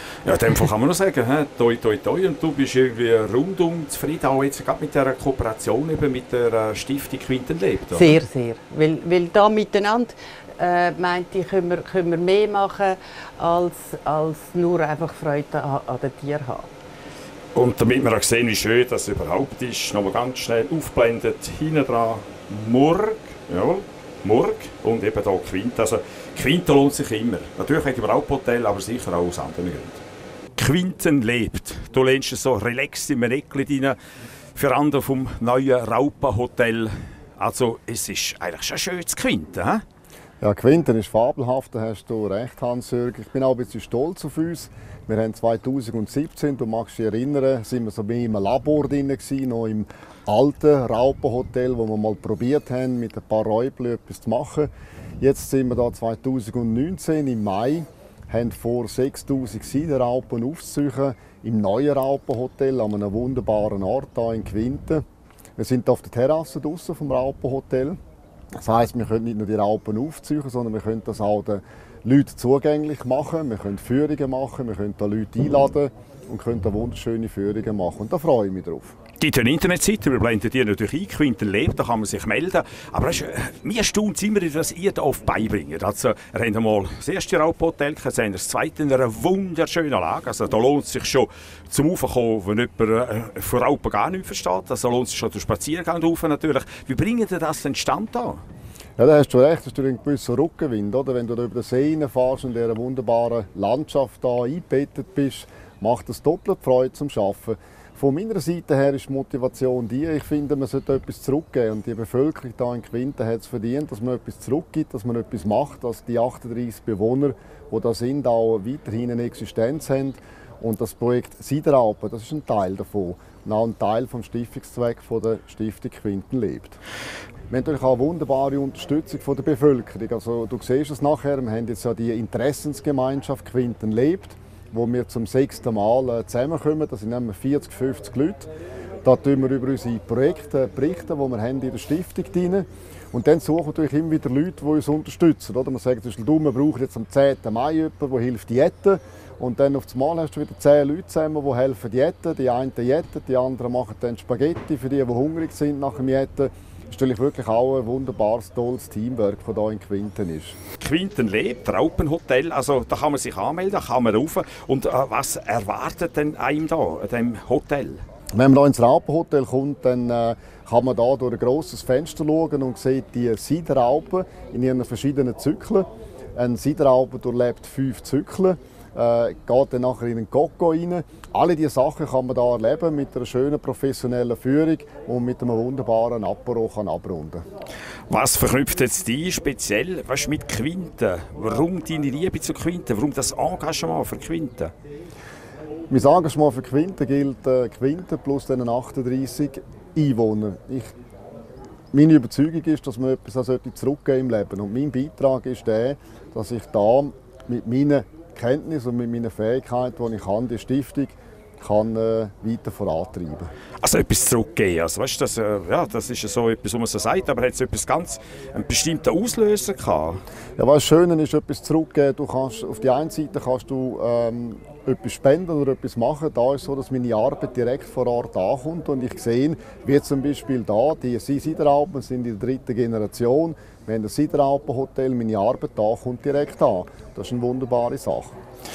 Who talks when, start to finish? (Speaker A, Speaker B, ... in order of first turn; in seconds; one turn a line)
Speaker A: 0.2-8.2
Speaker B: 8.0-16.7
Speaker A: 17.6-30.0
Speaker A: 30.6-34.0
Speaker A: 34.5-39.8
Speaker C: 40.4-54.7
Speaker C: 55.2-65.0
Speaker C: 65.6-68.0
Speaker C: 68.5-79.0
Speaker A: 79.2-98.4
Speaker C: 99.0-126.8
Speaker C: 127.5-138.5
Speaker C: 139.0-160.6
Speaker A: 160.8-168.0
Speaker C: 168.3-187.4
Speaker A: 188.1-194.7
Speaker C: 195.9-200.9
Speaker C: 201.9-213.5
Speaker A: 213.8-220.2
Speaker C: 220.6-238.3